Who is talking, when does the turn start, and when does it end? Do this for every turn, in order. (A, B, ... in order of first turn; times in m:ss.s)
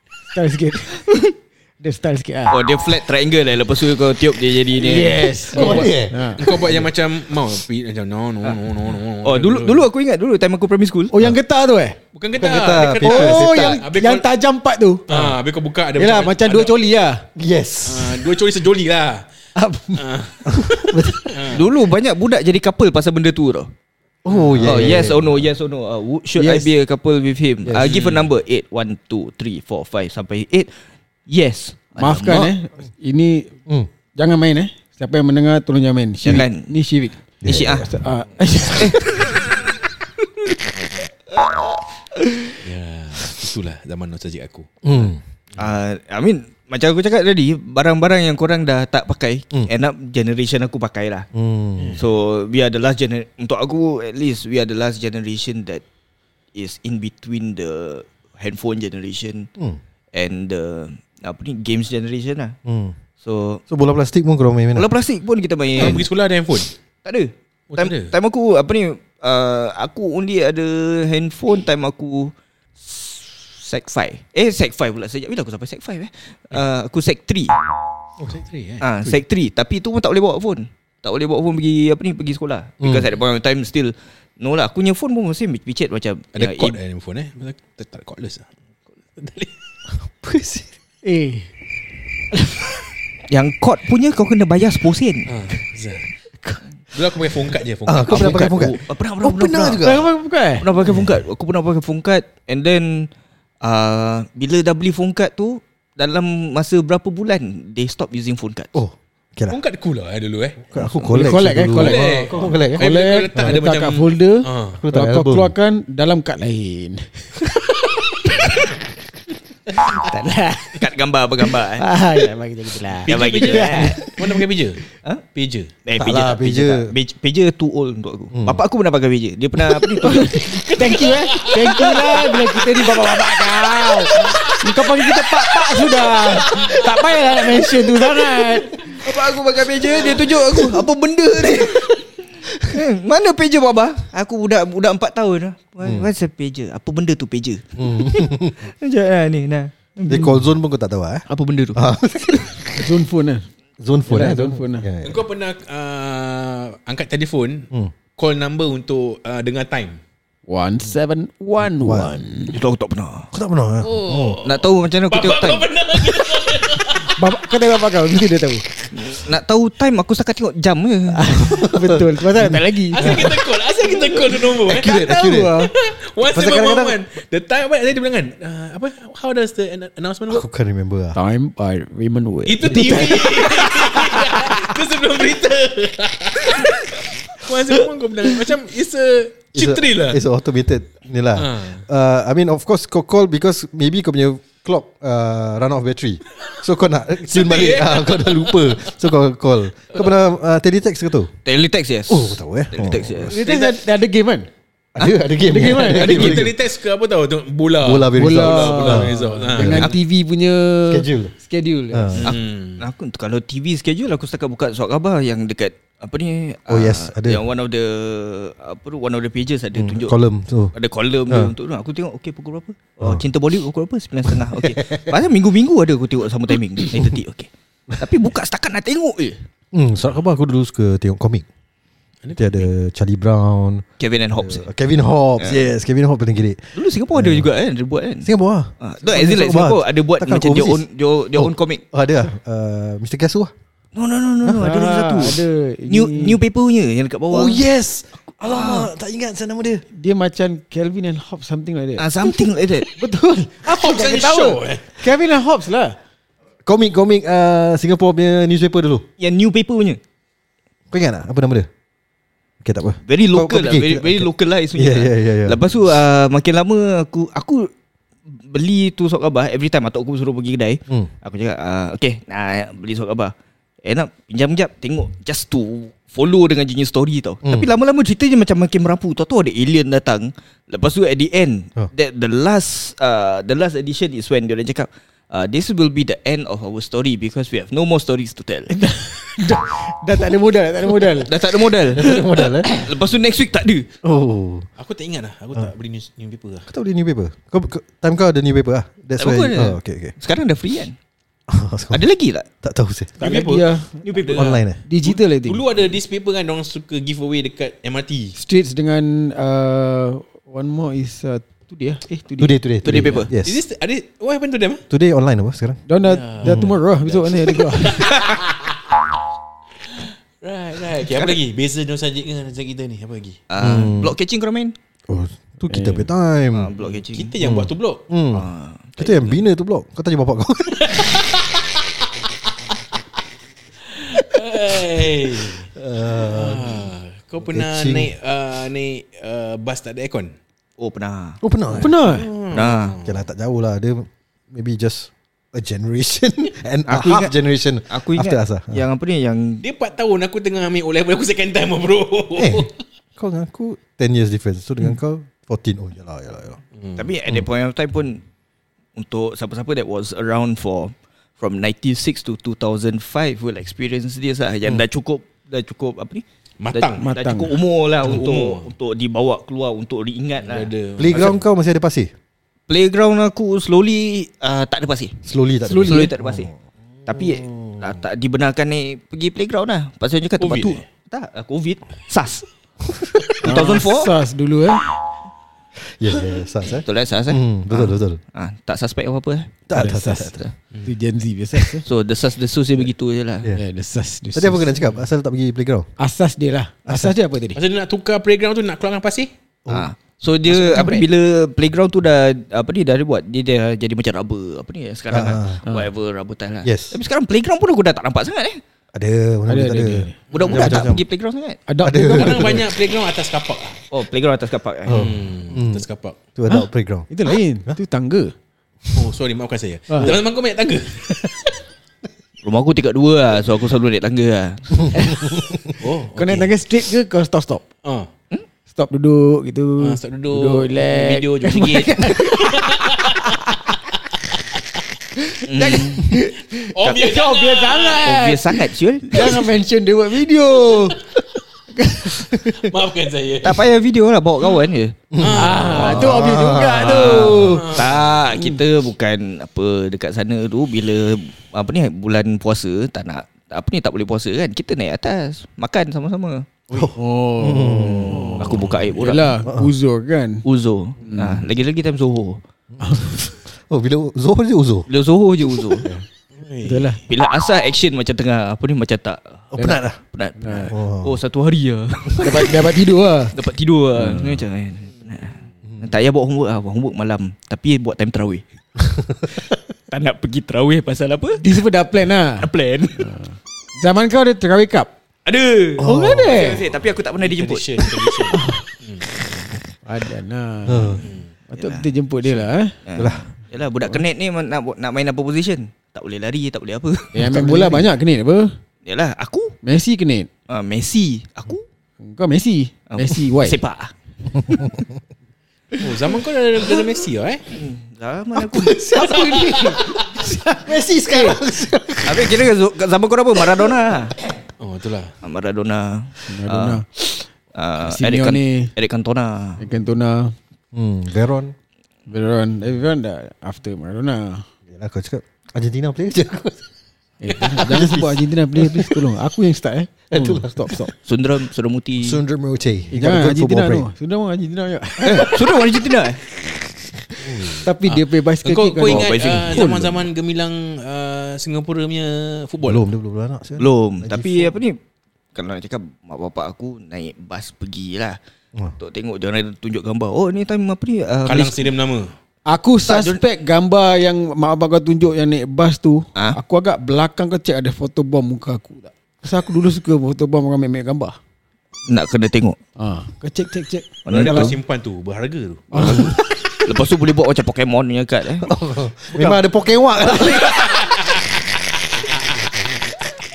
0:00.3-0:02.6 A
0:02.5-0:05.3 B
0:04.8-0:06.4 A
0:05.5-0:09.9 C
0:05.5-0:06.9 D
0:09.2-0:11.1 B
0:11.1-0:12.0 A
0:12.1-0:14.2 C
0:12.4-0:13.8 D
0:13.0-0:15.1 A
0:15.1-0:16.8 C
0:16.0-0:17.2 A
0:17.4-0:18.3 D
0:17.8-0:19.3 C
0:19.6-0:20.0 A
0:20.0-0:21.7 C
0:20.5-0:21.3 D
0:21.5-0:23.7 B
0:24.2-0:25.5 D
0:24.3-0:24.7 C
0:24.6-0:30.8 B
0:26.4-0:26.7 A
0:27.8-0:28.3 C
0:31.3-0:32.5 B
0:32.0-0:33.5 A
0:34.2-0:39.3 A
0:36.2-0:36.7 B
0:37.4-0:37.9 D
0:37.4-0:37.9 B
0:38.8-0:39.5 B
0:41.3-0:42.5 B
0:42.6-0:45.7 C
0:44.8-0:45.2 D
0:45.6-0:51.3 B
0:51.3-0:52.0 D
0:51.8-0:52.0 C
0:52.0-0:55.8 B
0:56.5-0:59.5 B
1:00.1-1:02.6 B
1:02.6-1:03.0 D
1:03.2-1:03.6 B
1:03.7-1:04.9 D
1:04.8-1:06.1 B
1:05.8-1:06.7 C
1:07.0-1:17.5 B
1:07.7-1:08.1 C
1:18.2-1:18.9 C
1:18.8-1:26.8 B
1:22.8-1:23.1 D
1:26.4-1:28.5 C
1:29.2-1:29.5 C
1:30.0-1:30.7 D
1:31.0-1:31.5 A
1:32.3-1:32.7 A
1:33.3-1:35.3 B
1:35.3-1:36.1 C
1:36.9-1:38.5 C
1:37.9-1:40.1 D
1:38.0-1:39.8 B
1:39.8-1:40.6 A
1:40.6-1:43.1 B
1:43.6-1:48.8 B
1:48.7-1:49.6 D
1:49.5-1:50.6 C
1:50.7-1:52.8 D
1:51.1-1:57.5 A
1:51.7-1:54.8 C
1:54.8-1:55.5 D
1:59.8-2:00.8 A
2:00.8-2:01.9 B
2:01.5-2:04.4 A
2:03.0-2:04.8 C
2:03.1-2:04.0 B
2:05.3-2:05.7 C
2:05.9-2:10.6 B
2:06.0-2:06.9 D
2:08.3-2:08.6 D
2:10.0-2:18.9 A
2:10.4-2:12.5 C
2:14.0-2:14.3 B
2:14.1-2:14.5 C
2:16.4-2:16.8 B
2:18.7-2:30.4 B
2:20.0-2:20.2 C
2:25.8-2:26.1 D
2:27.8-2:28.6 D
2:30.1-2:32.9 D
2:31.3-2:31.8 B
2:32.8-2:33.5 A
2:33.8-2:35.2 D
2:34.1-2:34.9 A
2:35.0-2:40.0 C
2:40.5-2:42.6 A
2:41.6-2:42.2 D
2:42.5-2:43.3 B
2:43.3-2:44.4 D
2:43.8-2:47.2 C
2:44.4-2:45.7 B
2:47.2-2:48.7 A
2:48.9-2:51.6 B
2:51.1-2:53.4 A
2:51.5-2:53.4 D
2:52.9-3:00.5 C
2:54.6-2:55.7 D
2:55.2-2:55.6 A
2:56.2-2:57.0 D
3:00.3-3:01.2 D
3:01.1-3:04.6 A
3:02.5-3:10.2 C
3:09.5-3:21.3 D
3:11.4-3:11.8 C
3:17.2-3:18.9 C
3:21.4-3:23.4 B
3:22.1-3:23.4 D
3:23.3-3:24.5 A
3:23.4-3:23.8 C
3:25.0-3:26.6 D
3:25.4-3:26.4 A
3:25.7-3:30.0 C
3:27.8-3:29.9 D
3:28.1-3:32.2 A
3:30.9-3:31.3 D
3:31.9-3:32.3 D
3:32.1-3:32.8 C
3:32.2-3:40.1 B
3:36.7-3:37.4 D
3:39.8-3:40.8 D
3:40.7-3:49.4 B
3:41.3-3:41.5 D
3:44.3-3:45.1 D
3:49.7-3:51.4 D
3:52.2-3:52.7 C
3:52.4-3:57.5 D
3:54.0-3:54.6 B
3:56.8-3:58.3 B
3:58.2-4:03.5 D
3:58.8-4:01.8 B
4:04.0-4:07.6 B
4:04.6-4:06.4 A
4:07.3-4:09.8 D
4:08.4-4:08.9 B
4:09.9-4:16.0 A
4:12.0-4:12.9 B
4:13.6-4:14.9 C
4:16.6-4:19.0 D
4:19.2-4:20.0 B
4:20.9-4:21.7 D
4:22.6-4:25.6 D
4:23.1-4:27.7 B
4:28.3-4:48.8 B
4:48.7-4:51.3 A
4:51.2-4:53.9 B
4:51.9-4:52.7 D
4:54.0-4:54.7 D
4:54.8-4:56.7 C
4:56.7-5:00.1 D
4:59.2-5:01.0 B
5:01.5-5:02.0 D
5:01.9-5:02.5 B
5:02.6-5:03.2 D
5:03.2-5:04.0 A
5:03.2-5:08.4 C
5:04.0-5:04.6 B
5:04.3-5:04.8 D
5:04.9-5:05.6 A
5:08.4-5:13.2 A
5:12.4-5:13.6 D
5:12.8-5:13.3 B
5:13.4-5:14.8 C
5:14.9-5:15.8 D
5:15.9-5:18.1 A
5:16.0-5:19.0 C
5:16.4-5:16.7 D
5:19.8-5:23.4 C
5:21.1-5:21.4 B
5:23.5-5:24.8 B
5:23.6-5:24.2 D
5:25.1-5:26.7 D
5:25.7-5:26.1 A
5:26.5-5:27.4 B
5:26.8-5:28.0 C
5:27.4-5:31.2 D
5:28.3-5:29.4 B
5:30.8-5:31.8 C
5:33.9-5:40.4 C
5:35.8-5:36.9 D
5:37.5-5:38.1 D
5:40.8-5:41.4 B
5:41.4-5:42.0 D
5:41.8-5:42.3 A
5:41.8-5:43.2 C
5:42.5-5:43.0 B
5:43.0-5:48.8 D
5:46.9-5:47.3 B
5:47.9-5:49.6 B
5:49.6-5:52.8 C
5:52.4-5:56.6 D
5:56.8-5:57.1 C
5:57.0-5:58.2 B
5:59.0-6:11.3 B
6:06.6-6:07.1 C
6:07.0-6:07.6 A
6:08.0-6:08.7 C
6:10.4-6:11.4 C
6:11.0-6:12.1 D
6:12.7-6:15.2 B
6:15.2-6:16.5 D
6:15.6-6:16.1 A
6:15.8-6:16.5 B
6:17.0-6:22.5 B
6:20.4-6:20.8 C
6:23.2-6:24.1 B
6:23.4-6:24.8 A
6:26.0-6:28.2 D
6:26.8-6:29.6 B
6:29.7-6:30.4 D
6:29.7-6:31.8 A
6:31.8-6:33.5 B
6:33.5-6:34.7 A
6:34.3-6:35.9 D
6:36.0-6:37.6 A
6:36.9-6:37.1 D
6:37.5-6:39.3 C
6:39.7-6:48.6 B
6:40.5-6:41.0 C
6:45.1-6:45.6 D
6:46.6-6:47.0 D
6:48.9-6:51.0 D
6:49.5-6:50.2 A
6:50.3-6:51.6 B
6:50.3-6:50.9 C
6:51.7-6:52.6 A
6:51.8-6:52.7 D
6:52.0-6:53.8 C
6:53.9-6:55.2 B
6:54.9-6:55.8 D
6:54.9-6:56.2 C
6:56.4-6:57.1 D
6:56.5-6:58.3 A
6:58.9-7:01.6 C
6:59.9-7:00.1 A
7:02.4-7:05.3 B
7:04.9-7:05.2 A
7:05.8-7:06.5 C
7:06.1-7:07.6 A
7:07.8-7:08.1 C
7:08.7-7:13.8 A
7:09.8-7:13.5 C
7:15.2-7:21.0 A
7:15.4-7:16.2 B
7:16.7-7:18.1 C
7:16.8-7:17.1 B
7:18.0-7:19.4 B
7:21.8-7:22.6 A
7:22.3-7:23.6 C
7:23.4-7:26.1 B
7:25.1-7:27.2 D
7:25.2-7:26.2 C
7:25.3-7:27.8 A
7:26.8-7:36.5 B
7:27.4-7:28.1 C
7:36.7-7:38.4 D
7:36.8-7:40.4 A
7:37.9-7:39.4 B
7:38.1-7:38.9 C
7:40.4-7:42.4 B
7:41.0-7:41.4 A
7:42.8-7:44.9 D
7:42.8-7:43.3 A
7:44.9-7:45.9 B
7:46.3-7:47.0 C
7:46.6-7:47.0 A
7:47.1-7:49.5 B
7:49.5-7:50.0 D
7:50.0-7:52.7 B
7:50.4-7:50.7 A
7:50.7-7:51.2 D
7:52.2-7:53.3 A
7:53.3-7:58.4 B
7:54.0-7:54.4 A
7:58.8-7:59.3 D
7:59.3-8:01.4 B
8:01.4-8:04.9 A
8:02.4-8:03.1 B
8:05.3-8:08.4 B
8:05.8-8:06.5 D
8:05.8-8:06.6 A
8:07.2-8:09.1 C
8:08.3-8:08.6 A
8:09.8-8:12.7 A
8:10.6-8:11.0 D
8:11.0-8:11.3 C
8:11.6-8:11.9 B
8:12.9-8:17.8 B
8:13.0-8:13.3 D
8:17.1-8:18.6 A
8:18.8-8:19.6 B
8:19.6-8:20.3 A
8:20.5-8:21.6 B
8:22.0-8:23.6 A
8:22.9-8:23.9 B
8:24.4-8:24.8 D
8:25.8-8:27.5 C
8:27.5-8:28.8 B
8:28.4-8:32.4 D
8:29.0-8:29.8 C
8:29.1-8:31.4 A
8:32.0-8:34.2 B
8:34.6-8:35.1 C
8:35.2-8:36.8 B
8:36.3-8:37.2 A
8:37.5-8:39.6 B
8:37.8-8:38.7 A
8:39.6-8:40.4 A
8:40.7-8:41.5 D
8:42.1-8:44.4 A
8:44.7-8:46.6 D
8:47.2-8:50.9 A
8:47.4-8:49.0 D
8:50.1-8:50.9 D
8:51.0-8:52.2 B
8:52.0-8:53.9 D
8:52.9-8:55.4 A
8:55.0-8:55.3 D
8:55.0-8:56.2 B
8:57.2-8:57.6 D
8:57.4-9:00.1 A
8:58.4-9:02.8 C
8:58.8-8:59.7 B
9:02.6-9:04.6 D
9:03.6-9:04.8 B
9:05.4-9:08.2 B
9:08.8-9:11.7 B
9:11.2-9:12.1 C
9:12.5-9:21.2 A
9:12.9-9:13.2 B
9:21.9-9:22.6 B
9:22.8-9:24.6 A
9:24.1-9:24.6 B
9:24.1-9:26.0 C
9:25.7-9:26.2 A
9:25.8-9:28.5 B
9:28.4-9:30.8 D
9:29.1-9:29.4 C
9:30.0-9:31.3 C
9:32.0-9:32.5 C